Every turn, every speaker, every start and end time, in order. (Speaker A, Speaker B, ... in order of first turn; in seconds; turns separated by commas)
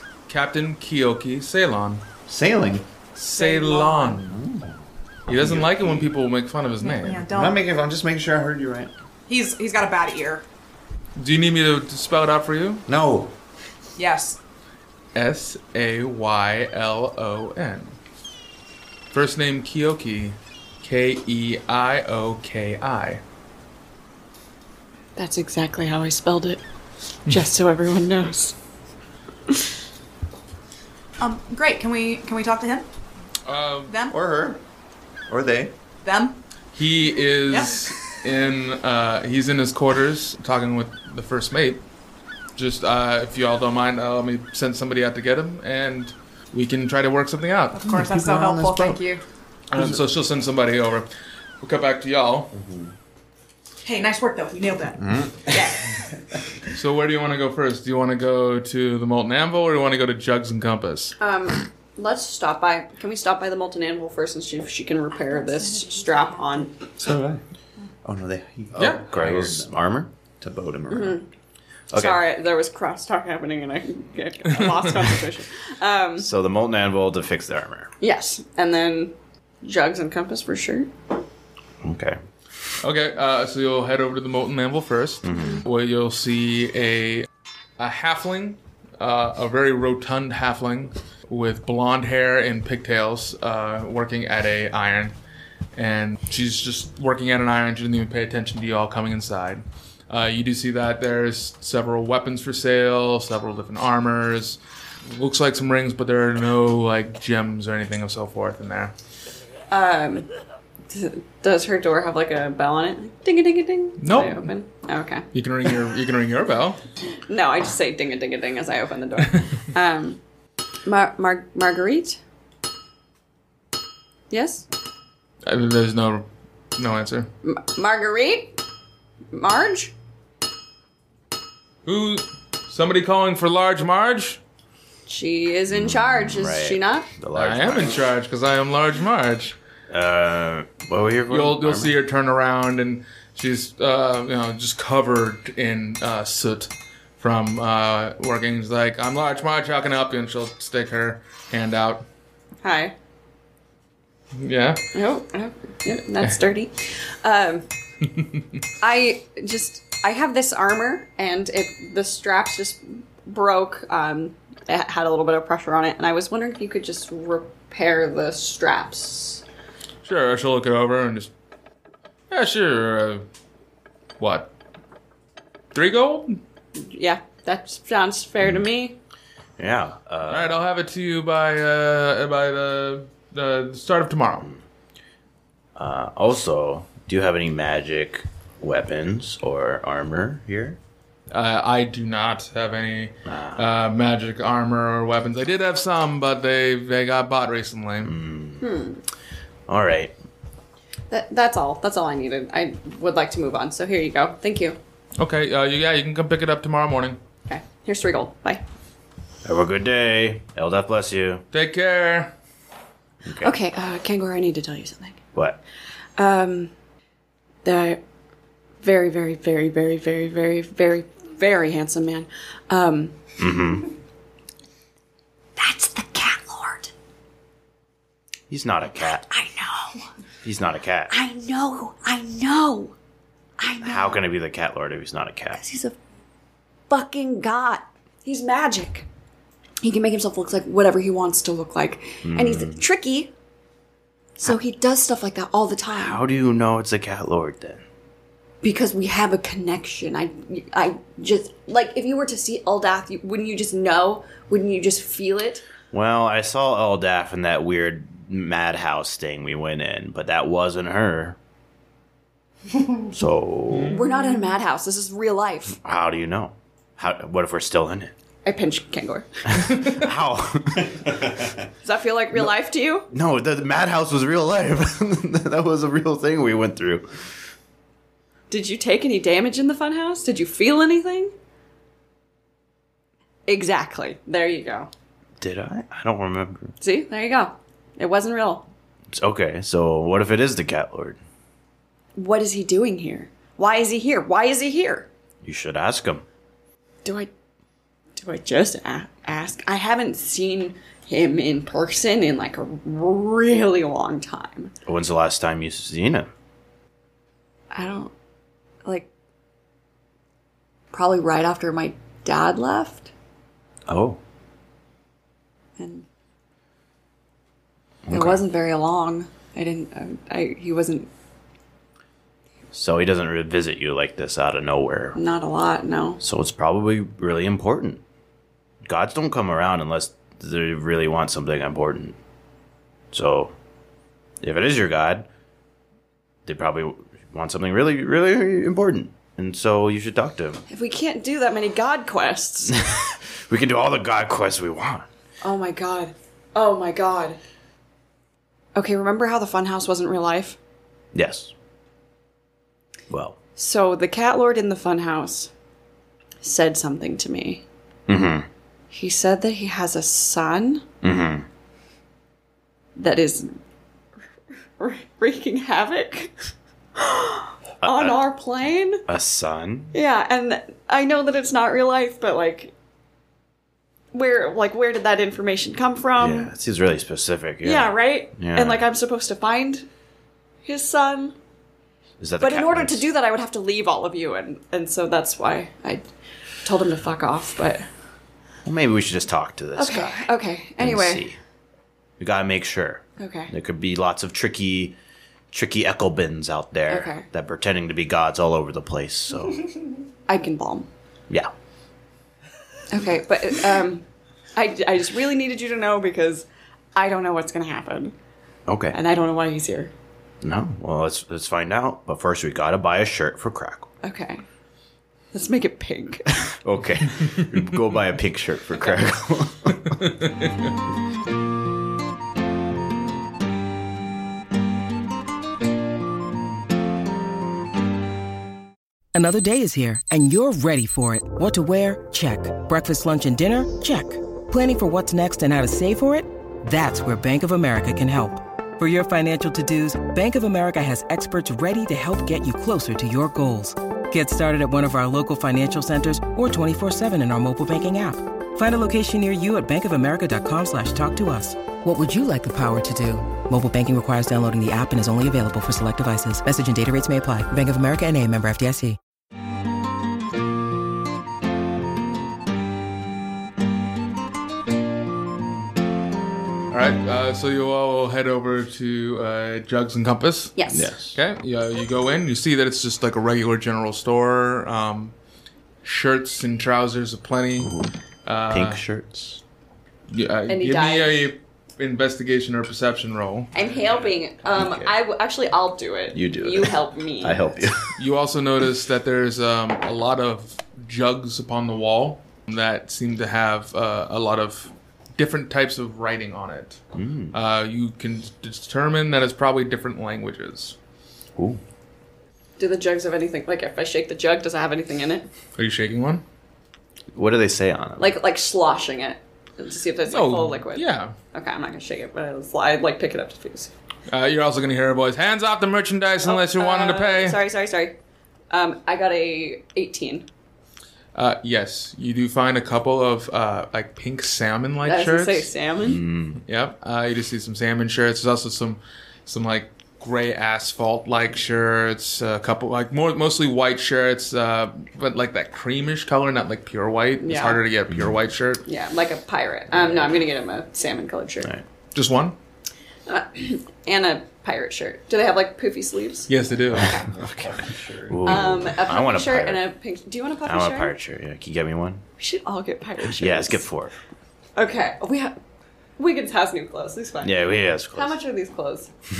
Speaker A: 0.3-2.0, Speaker B: 2.3-2.9, Speaker A: 3.1-4.3, Speaker C: 3.3-4.2, Speaker B: 4.2-6.1, Speaker A: 5.3-7.2, Speaker C: 6.8-7.6, Speaker B: 7.3-8.9, Speaker C: 9.3-10.4, Speaker A: 11.2-12.8, Speaker B: 12.9-13.3, Speaker C: 14.0-14.4, Speaker A: 15.1-18.0, Speaker A: 19.1-23.2, Speaker D: 25.1-26.6, Speaker D: 27.3-28.6, Speaker C: 31.2-32.9, Speaker A: 33.5-33.9, Speaker C: 33.9-34.1, Speaker B: 34.1-34.6, Speaker B: 35.3-35.7, Speaker C: 36.0-36.4, Speaker A: 36.7-41.8, Speaker C: 37.5-37.9, Speaker A: 42.5-47.8, Speaker C: 47.7-49.2, Speaker B: 47.9-49.0, Speaker A: 49.7-51.1, Speaker B: 49.7-50.0, Speaker A: 51.6-52.5, Speaker B: 52.5-52.9, Speaker C: 53.8-55.8, Speaker B: 55.0-56.0, Speaker A: 56.7-61.1, Speaker D: 61.2-66.8, Speaker B: 67.0-67.4, Speaker B: 68.0-69.8, Speaker A: 68.8-69.0, Speaker E: 69.1-70.1, Speaker B: 70.4-71.2, Speaker D: 70.9-71.2, Speaker E: 71.9-72.2, Speaker D: 71.9-76.3, Speaker E: 76.2-77.9, Speaker D: 78.0-80.9, Speaker E: 81.8-82.2, Speaker A: 82.8-95.1, Speaker E: 85.2-85.6, Speaker D: 85.3-85.6, Speaker A: 95.8-108.9, Speaker D: 109.7-110.3, Speaker D: 110.9-115.3, Speaker A: 114.0-114.5, Speaker A: 115.3-116.8, Speaker D: 117.3-120.2, Speaker D: 120.8-122.2, Speaker D: 124.3-124.7, Speaker A: 125.4-127.3, Speaker D: 127.4-128.6, Speaker D: 129.3-129.9, Speaker A: 131.8-134.4, Speaker D: 135.1-137.1, Speaker E: 135.7-138.0, Speaker A: 137.3-139.6, Speaker E: 139.9-141.9, Speaker A: 141.3-152.1, Speaker D: 152.6-152.9, Speaker A: 154.4-154.8, Speaker D: 154.9-157.7, Speaker D: 158.8-169.4, Speaker A: 170.0-171.3, Speaker A: 172.3-173.3, Speaker A: 174.2-174.5, Speaker A: 175.7-176.4, Speaker D: 176.8-179.0, Speaker E: 179.6-180.6, Speaker A: 180.2-184.5, Speaker E: 185.8-190.8, Speaker A: 191.3-198.1, Speaker E: 193.2-193.7, Speaker E: 198.0-198.7, Speaker D: 198.6-199.0, Speaker E: 199.7-200.1, Speaker D: 201.1-204.8, Speaker A: 205.2-207.2, Speaker D: 207.4-208.6, Speaker E: 209.4-211.4, Speaker A: 211.5-212.3, Speaker E: 213.2-213.5, Speaker D: 213.4-215.2, Speaker E: 215.3-215.6, Speaker D: 216.2-216.7, Speaker D: 217.6-218.0, Speaker D: 218.8-223.3, Speaker E: 223.4-223.9, Speaker D: 225.6-226.9, Speaker E: 228.5-229.2, Speaker D: 228.9-230.0, Speaker E: 230.4-231.1, Speaker D: 231.1-232.9, Speaker D: 233.6-234.2, Speaker E: 233.8-235.6, Speaker D: 235.5-235.9, Speaker D: 236.9-239.1, Speaker D: 239.8-243.3, Speaker E: 242.2-242.8, Speaker D: 244.4-246.2, Speaker E: 245.9-247.8, Speaker D: 248.6-255.7, Speaker E: 255.9-261.4, Speaker E: 263.1-264.0, Speaker A: 263.7-264.0, Speaker D: 263.9-265.8, Speaker E: 265.8-268.1, Speaker D: 268.4-269.6, Speaker E: 269.5-271.4, Speaker D: 271.8-273.1, Speaker E: 273.1-277.1, Speaker D: 278.5-281.3, Speaker D: 283.5-284.9, Speaker E: 285.4-286.7, Speaker D: 286.8-288.7, Speaker E: 289.1-291.2, Speaker D: 292.1-295.1, Speaker E: 295.4-296.2, Speaker D: 297.0-297.3, Speaker D: 298.1-304.7, Speaker E: 304.9-306.3, Speaker D: 307.7-308.1, Speaker D: 310.9-313.1, Speaker E: 313.9-314.2, Speaker D: 315.8-316.1, Speaker E: 318.1-318.4, Speaker D: 318.1-321.1, Speaker E: 322.7-325.2, Speaker D: 325.1-326.2, Speaker E: 326.2-328.0, Speaker E: 328.8-332.2, Speaker E: 333.1-333.5, Speaker E: 334.4-335.3, Speaker E: 336.4-340.6, Speaker D: 340.7-342.8, Speaker E: 342.7-345.1, Speaker D: 345.4-347.4, Speaker D: 348.7-350.6, Speaker E: 351.1-351.5, Speaker E: 353.1-353.4, Speaker D: 353.6-355.5, Speaker D: 356.4-357.6, Speaker E: 358.1-358.5, Speaker D: 358.9-360.9, Speaker E: 361.0-361.4, Speaker D: 362.9-363.6, Speaker D: 364.8-366.3, Speaker D: 366.9-369.0, Speaker E: 367.8-368.2, Speaker E: 369.1-369.9, Speaker D: 369.9-372.7, Speaker D: 374.1-376.5, Speaker E: 376.2-378.8, Speaker D: 377.6-379.9, Speaker D: 380.6-381.3, Speaker E: 382.2-383.1, Speaker D: 382.4-386.0, Speaker D: 386.6-387.8, Speaker E: 388.6-391.4, Speaker D: 389.8-391.3, Speaker E: 392.2-394.9, Speaker D: 393.2-393.5, Speaker E: 395.5-399.7, Speaker D: 396.9-397.2, Speaker D: 400.3-400.9, Speaker D: 402.9-404.0, Speaker D: 404.6-408.1, Speaker E: 408.7-409.0, Speaker D: 408.9-409.9, Speaker E: 410.4-413.9, Speaker D: 414.0-414.4, Speaker D: 415.3-416.4, Speaker E: 416.3-420.0, Speaker D: 418.8-419.0, Speaker A: 419.8-420.7, Speaker F: 429.1-459.0, Speaker A: 466.7-475.1, Speaker D: 470.6-470.9, Speaker E: 470.7-471.2, Speaker A: 475.8-477.7, Speaker E: 477.6-477.9, Speaker A: 478.2-478.8, Speaker E: 478.5-479.4, Speaker A: 480.1-483.5, Speaker D: 480.5-481.3, Speaker D: 483.5-487.5, Speaker E: 484.4-484.9, Speaker E: 486.1-487.9, Speaker A: 488.0-496.8, Speaker E: 496.9-497.3, Speaker A: 497.3-500.8, Speaker D: 502.6-505.3, Speaker A: 505.6-506.2, Speaker E: 507.1-508.1, Speaker D: 508.0-513.7, Speaker A: 510.1-511.1, Speaker A: 514.1-517.4, Speaker D: 516.2-518.0, Speaker D: 518.5-520.3, Speaker A: 521.1-525.5, Speaker D: 524.8-526.0, Speaker E: 525.8-526.4, Speaker A: 526.4-538.6, Speaker D: 537.2-537.6, Speaker E: 537.9-538.2, Speaker D: 538.6-541.5, Speaker A: 541.9-542.4, Speaker D: 543.1-546.3, Speaker A: 546.3-546.9, Speaker E: 546.8-549.6, Speaker D: 546.8-547.1, Speaker B: 546.9-548.4, Speaker D: 548.2-551.0, Speaker E: 550.5-552.0, Speaker D: 552.2-553.7, Speaker E: 553.0-553.9, Speaker D: 554.5-555.4, Speaker D: 556.0-558.9, Speaker E: 557.2-558.2